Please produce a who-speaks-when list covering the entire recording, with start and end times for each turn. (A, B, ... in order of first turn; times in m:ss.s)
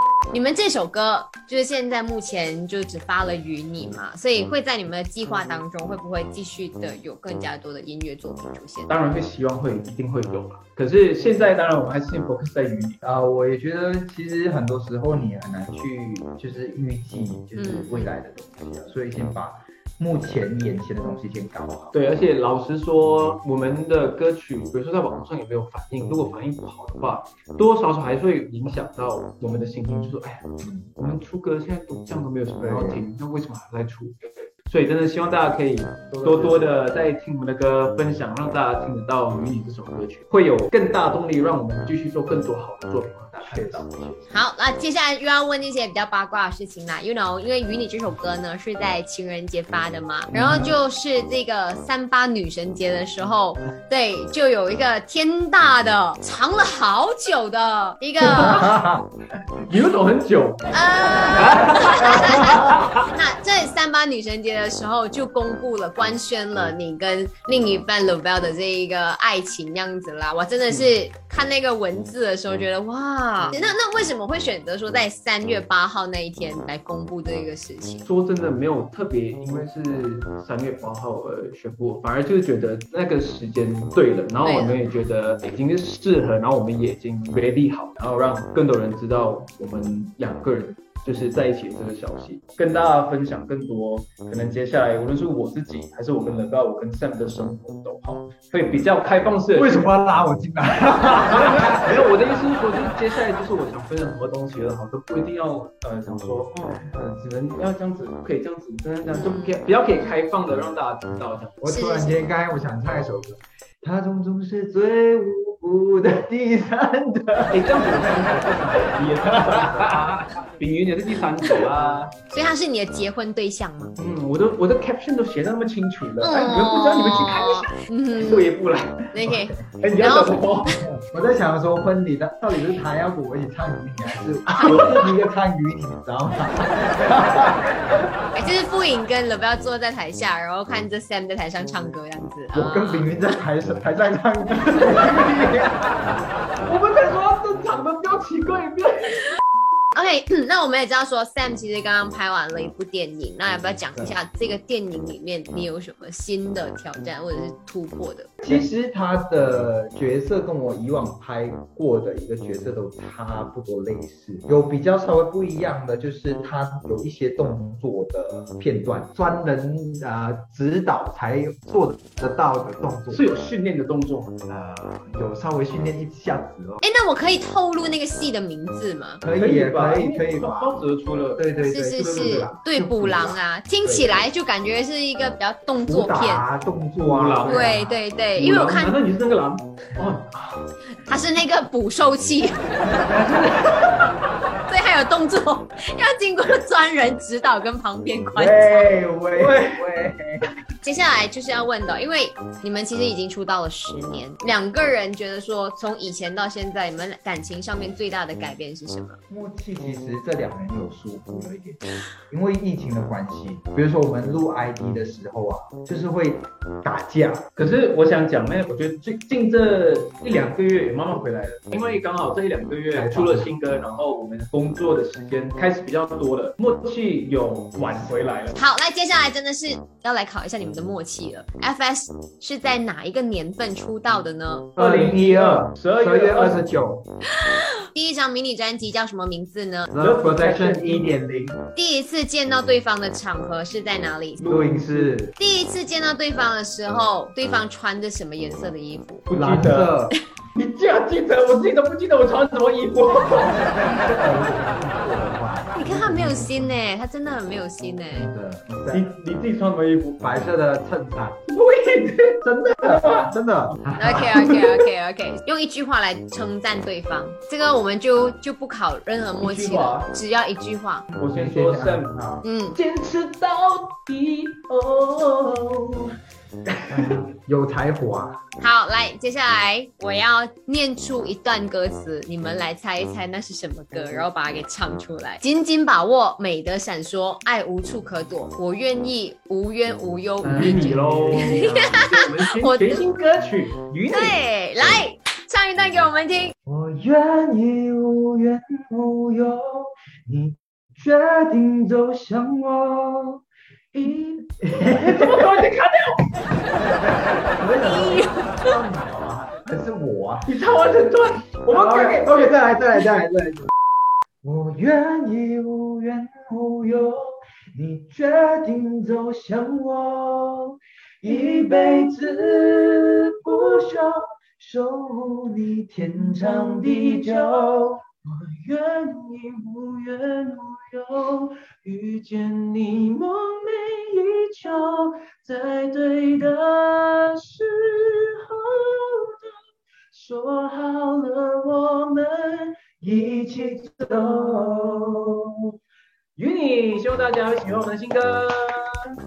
0:00.3-0:08.9 A
0:08.9-0:13.0 B
0:13.0-0:21.9 C
0:17.6-0:18.1 A
0:21.9-0:44.3 B
0:30.6-0:30.9 C
0:32.6-0:33.0 C
0:36.1-0:36.8 C
0:43.4-0:43.9 C
0:44.3-0:58.6 A
0:50.3-0:50.8 C
0:58.2-0:58.8 B
0:58.2-0:59.1 C
0:59.6-1:03.1 B
1:00.7-1:18.0 A
1:02.0-1:02.8 C
1:18.0-1:39.9 B
1:24.4-1:24.8 A
1:39.5-1:42.1 C
1:41.0-1:51.6 B
1:49.1-1:49.7 A
1:51.6-1:58.4 C
1:51.6-1:52.2 A
1:57.5-2:02.1 B
1:59.0-2:00.0 C
2:02.3-2:04.0 A
2:04.0-2:09.1 B
2:06.2-2:08.5 A
2:09.1-2:10.6 A
2:09.2-2:09.7 C
2:09.8-2:10.8 B
2:10.9-2:17.7 C
2:14.5-2:15.1 A
2:18.3-2:23.1 A
2:22.5-2:26.1 C
2:26.6-2:29.3 B
2:29.9-2:38.3 A
2:38.4-2:53.3 C
2:53.1-2:54.4 B
2:54.5-2:56.8 C
2:56.8-2:59.2 A
2:59.2-3:00.8 C
2:59.4-3:01.5 B
3:01.4-3:04.3 C
3:01.6-3:06.4 A
3:02.0-3:02.5 B
3:05.9-3:08.0 C
3:07.0-3:10.7 B
3:07.4-3:09.0 A
3:11.1-3:12.8 A
3:13.0-3:14.1 B
3:14.7-3:19.0 A
3:18.3-3:20.4 C
3:19.3-3:19.8 B
3:20.8-3:29.2 A
3:29.3-3:37.5 C
3:37.6-3:48.6 B
3:42.9-3:43.5 C
3:48.5-3:54.7 A
3:54.8-3:56.7 B
3:54.8-3:57.0 C
3:57.5-3:59.9 A
3:59.9-4:01.6 C
4:00.0-4:01.1 B
4:01.7-4:04.5 A
4:04.4-4:05.2 B
4:04.4-4:05.4 C
4:05.4-4:09.3 A
4:09.3-4:09.9 B
4:09.3-4:10.2 C
4:10.5-4:13.6 B
4:13.2-4:16.8 C
4:15.7-4:18.3 A
4:18.1-4:19.2 C
4:18.9-4:20.4 B
4:20.2-4:21.4 C
4:21.5-4:23.7 B
4:22.4-4:24.8 C
4:24.0-4:31.0 A
4:29.4-4:30.1 B
4:31.2-4:32.4 C
4:31.2-4:32.2 B
4:32.4-4:32.8 A
4:32.7-4:36.1 B
4:36.6-4:37.2 B
4:36.9-4:38.4 C
4:38.6-4:53.0 A
4:50.4-4:55.0 B
4:50.6-4:51.6 C
4:54.1-4:56.5 A
4:56.6-5:03.4 C
5:03.9-5:06.3 B
5:04.6-5:05.6 C
5:06.8-5:10.5 C
5:10.4-5:12.6 B
5:11.7-5:13.7 C
5:14.4-5:28.0 C
5:21.3-5:23.9 B
5:26.1-5:39.5 B
5:40.1-5:44.8 B
5:43.5-5:45.2 C
5:46.4-5:49.0 B